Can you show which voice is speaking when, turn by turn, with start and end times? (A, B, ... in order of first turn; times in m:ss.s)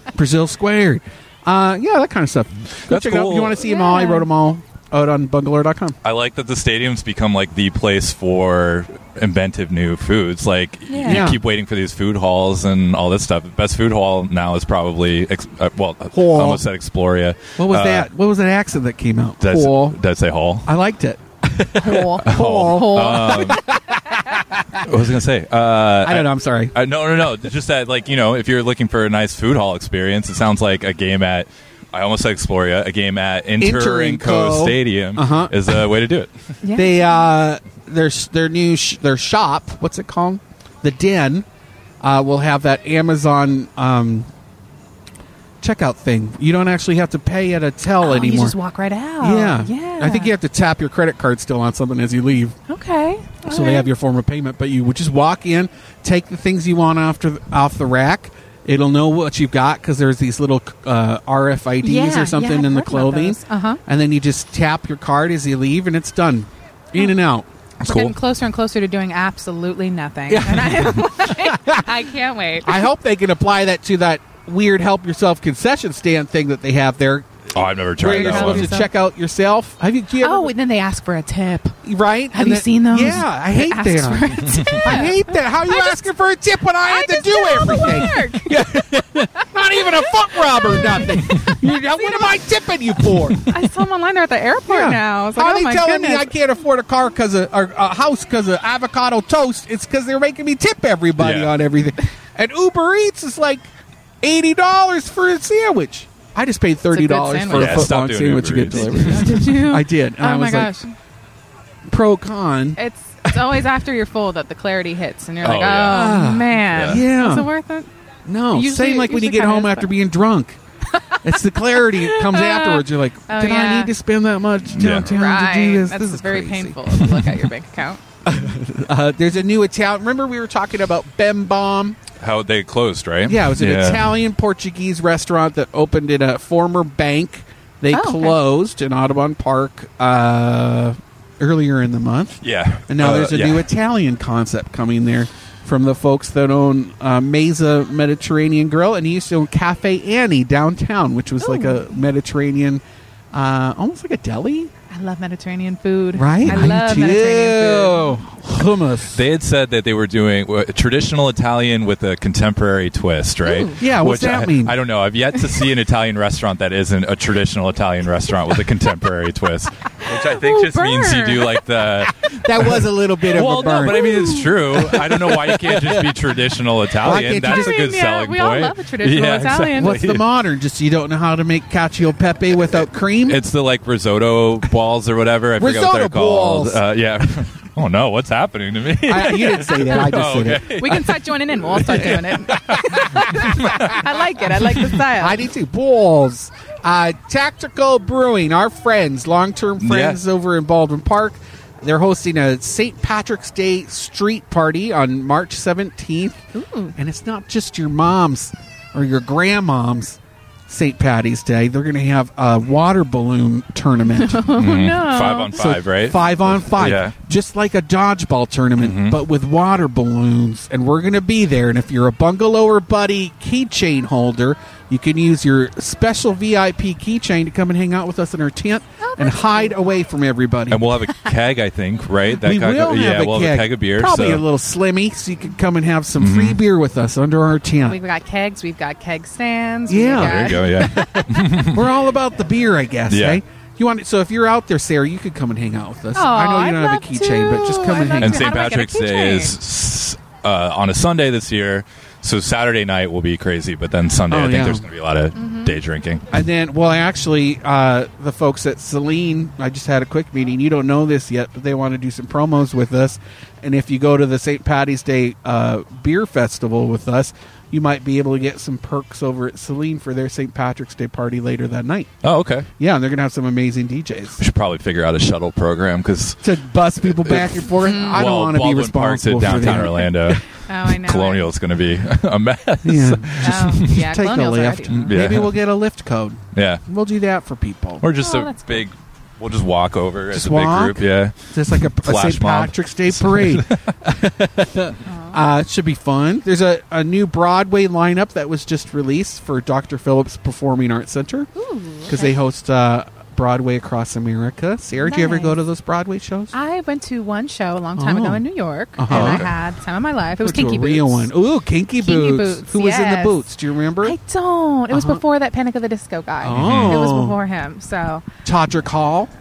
0:00.2-0:06.0 A
0:02.9-0:03.6 B
0:03.6-0:04.3 C
0:06.0-0:18.1 B
0:10.9-0:11.3 C
0:11.0-0:11.4 A
0:16.1-0:16.6 A
0:17.6-0:20.0 A
0:19.4-0:20.7 B
0:20.6-0:24.8 A
0:21.8-0:23.6 C
0:22.2-0:23.6 B
0:24.8-0:36.3 B
0:26.0-0:26.8 A
0:33.6-0:35.6 A
0:36.6-0:37.2 C
0:36.8-0:41.5 A
0:42.0-0:44.3 A
0:45.6-0:48.6 A
0:48.0-0:50.3 C
0:49.2-0:52.6 A
0:52.7-0:53.9 C
0:53.4-1:07.5 A
1:01.8-1:03.8 C
1:07.8-1:08.2 B
1:07.8-1:12.9 C
1:10.3-1:11.9 A
1:12.6-1:20.5 A
1:17.5-1:18.8 B
1:18.1-1:18.9 C
1:20.2-1:21.8 C
1:21.8-1:33.5 A
1:22.3-1:26.0 C
1:26.9-1:28.7 C
1:29.8-1:31.3 C
1:31.9-1:32.4 C
1:33.1-1:33.4 B
1:33.5-1:36.3 C
1:34.7-1:43.7 A
1:41.2-1:41.6 B
1:44.2-1:50.7 A
1:46.9-1:47.9 C
1:47.5-1:49.4 B
1:48.7-1:50.9 C
1:51.9-1:53.4 A
1:52.8-1:57.9 C
1:55.4-1:56.1 B
1:55.9-1:57.5 A
1:56.7-1:57.0 B
1:58.3-2:00.6 A
1:58.5-1:59.9 C
2:00.9-2:03.9 C
2:01.2-2:07.2 A
2:04.7-2:05.1 B
2:04.8-2:08.0 C
2:08.2-2:12.0 A
2:12.2-2:14.1 B
2:13.3-2:32.8 A
2:17.9-2:18.4 C
2:22.4-2:23.7 B
2:31.4-2:32.0 C
2:33.3-2:34.7 A
2:34.9-2:38.2 C
2:36.1-2:39.2 A
2:36.4-2:36.8 B
2:39.1-3:00.2 B
2:43.4-2:43.8 C
2:43.8-2:44.7 A
2:50.0-2:51.6 C
2:52.4-2:56.0 A
2:53.5-2:54.8 C
2:57.0-2:57.8 A
2:57.2-3:00.0 C
2:59.7-3:03.4 A
3:03.3-3:15.0 B
3:05.6-3:06.8 A
3:09.0-3:10.7 A
3:10.7-3:15.4 C
3:13.2-3:14.0 A
3:15.1-3:26.4 A
3:19.8-3:20.2 B
3:26.5-3:26.9 C
3:27.0-3:34.5 A
3:34.1-3:35.6 C
3:34.5-3:37.2 B
3:35.6-3:50.8 A
3:38.8-3:39.2 B
3:49.0-3:49.8 C
3:50.7-3:54.5 B
3:52.4-3:58.0 A
3:56.2-3:56.6 B
3:57.9-4:01.7 C
3:59.9-4:08.5 A
4:00.1-4:01.8 B
4:03.1-4:03.4 B
4:06.2-4:09.5 C
4:08.2-4:16.3 B
4:14.3-4:14.9 A
4:15.3-4:15.8 C
4:16.3-4:32.1 A
4:32.2-4:32.7 B
4:32.8-4:34.4 A
4:34.4-4:44.0 B
4:36.4-4:40.4 A
4:37.8-4:38.2 C
4:40.7-4:41.5 C
4:42.8-4:48.0 A
4:43.4-4:45.3 C
4:44.9-4:45.6 B
4:46.5-4:46.8 B
4:48.0-4:53.9 B
4:48.2-4:48.8 C
4:50.3-5:01.5 A
4:55.1-4:55.4 C
5:01.6-5:02.3 C
5:02.1-5:06.5 A
5:05.0-5:05.6 C
5:06.5-5:11.3 C
5:08.0-5:08.4 A
5:09.0-5:09.5 A
5:09.1-5:09.5 B
5:10.4-5:14.2 A
5:12.0-5:13.5 C
5:14.0-5:18.2 C
5:14.9-5:15.2 A
5:16.4-5:17.4 A
5:16.5-5:17.1 B
5:18.4-5:19.3 A